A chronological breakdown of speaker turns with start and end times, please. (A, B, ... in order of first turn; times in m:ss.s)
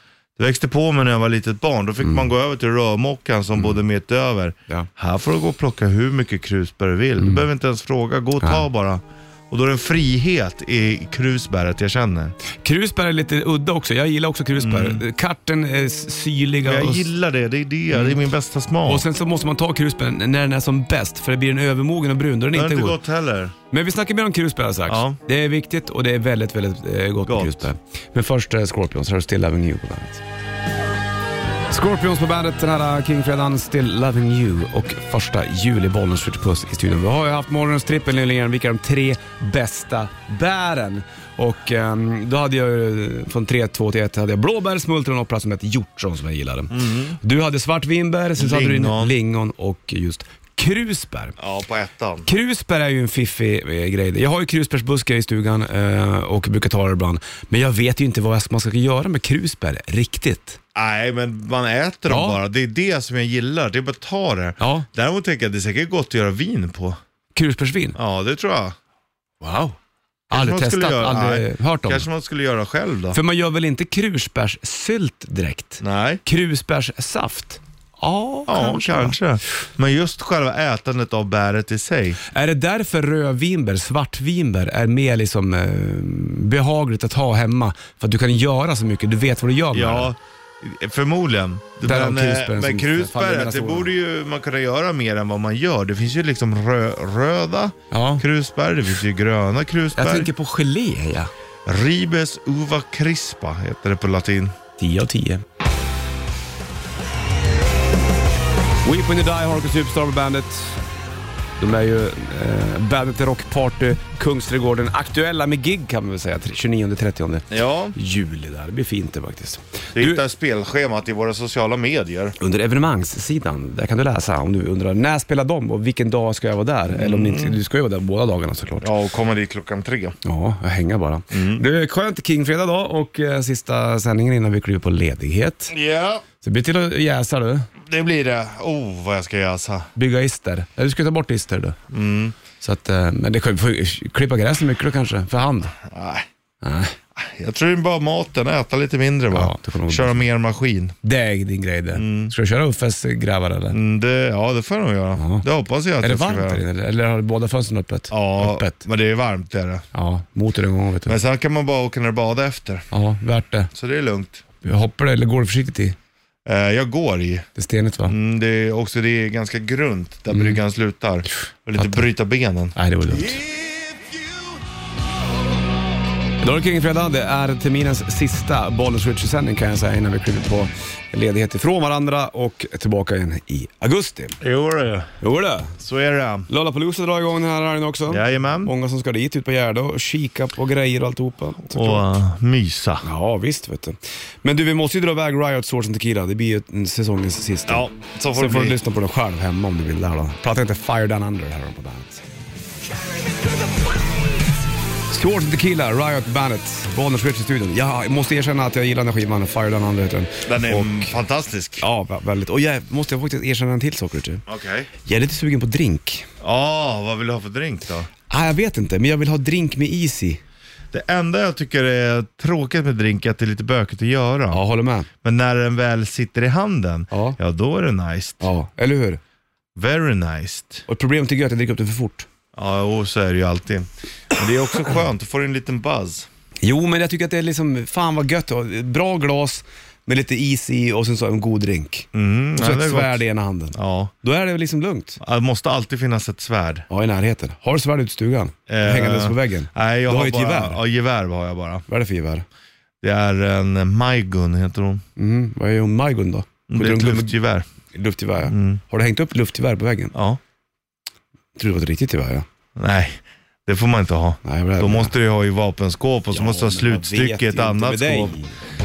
0:00.4-0:12.4 A
0:07.2-0:07.4 B
0:12.6-0:17.1 B
0:14.6-0:15.0 A
0:16.6-0:19.1 A
0:18.8-0:23.0 B
0:22.5-0:23.6 A
0:23.7-0:30.2 B
0:24.9-0:25.2 A
0:27.3-0:27.7 A
0:31.7-0:51.4 B
0:46.7-0:47.2 A
0:48.4-0:49.2 A
0:51.4-0:52.3 A
0:52.2-1:00.6 B
1:00.8-1:07.0 A
1:02.1-1:02.4 B
1:04.6-1:04.9 B
1:07.4-1:08.0 B
1:08.0-1:08.8 A
1:09.4-1:09.8 B
1:10.3-1:12.0 B
1:10.3-1:13.2 A
1:13.1-1:19.2 B
1:15.8-1:16.2 A
1:18.5-1:22.2 A
1:22.3-1:30.1 B
1:29.7-1:40.3 A
1:31.8-1:33.9 B
1:37.9-1:38.2 B
1:40.0-1:41.3 B
1:41.7-1:44.6 A
1:44.8-1:45.4 B
1:48.8-1:50.8 B
1:51.6-2:00.2 B
1:57.5-1:58.0 A
2:00.0-2:02.4 A
2:02.4-2:08.9 B
2:06.9-2:07.6 A
2:08.8-2:10.2 A
2:10.2-2:15.7 B
2:11.3-2:11.6 A
2:15.7-2:16.2 A
2:16.4-2:17.7 B
2:17.8-2:19.9 A
2:20.0-2:21.8 B
2:21.9-2:22.4 A
2:22.6-2:25.8 B
2:25.8-2:26.3 A
2:26.6-2:27.0 B
2:27.2-2:31.0 A
2:29.3-2:30.2 B
2:31.0-2:33.8 B
2:32.0-2:32.3 A
2:33.7-2:36.6 A
2:35.2-2:35.4 B
2:36.0-2:38.8 B
2:38.1-2:39.8 A
2:39.9-2:41.2 B
2:41.1-2:42.9 A
2:42.9-2:43.7 B
2:43.7-2:44.4 A
2:44.6-2:46.0 B
2:46.4-2:47.5 A
2:47.6-2:48.1 B
2:48.1-2:54.6 A
2:50.3-2:50.6 B
2:51.8-2:52.0 B
2:52.8-2:53.4 B
2:56.4-3:04.4 B
3:04.4-3:05.1 A
3:05.2-3:05.8 B
3:05.8-3:06.5 A
3:06.5-3:12.1 B
3:08.1-3:08.7 A
3:11.7-3:13.0 A
3:13.0-3:22.2 B
3:17.7-3:18.8 A
3:25.1-3:31.2 B
3:30.5-3:31.8 A
3:31.8-3:34.4 B
3:34.5-3:34.9 A
3:35.0-3:36.3 B
3:36.4-3:38.1 A
3:38.3-3:40.4 B
3:40.9-3:44.6 A
3:44.5-3:45.1 B
3:45.2-3:48.5 A
3:47.1-3:47.4 B
3:48.4-3:49.2 B
3:49.8-3:50.8 A
3:50.9-3:52.3 B
3:52.5-3:56.3 A
3:56.6-4:05.2 B
4:02.1-4:03.2 A
4:03.7-4:04.1 A
4:05.2-4:06.9 A
4:06.9-4:10.8 B
4:08.7-4:11.9 A
4:11.9-4:12.4 B
4:13.0-4:15.0 A
4:15.2-4:17.4 B
4:16.7-4:17.6 A
4:17.9-4:20.1 B
4:18.5-4:18.8 A
4:20.1-4:20.4 A
4:21.6-4:22.4 B
4:22.8-4:28.4 A
4:24.4-4:25.1 B
4:26.3-4:28.6 B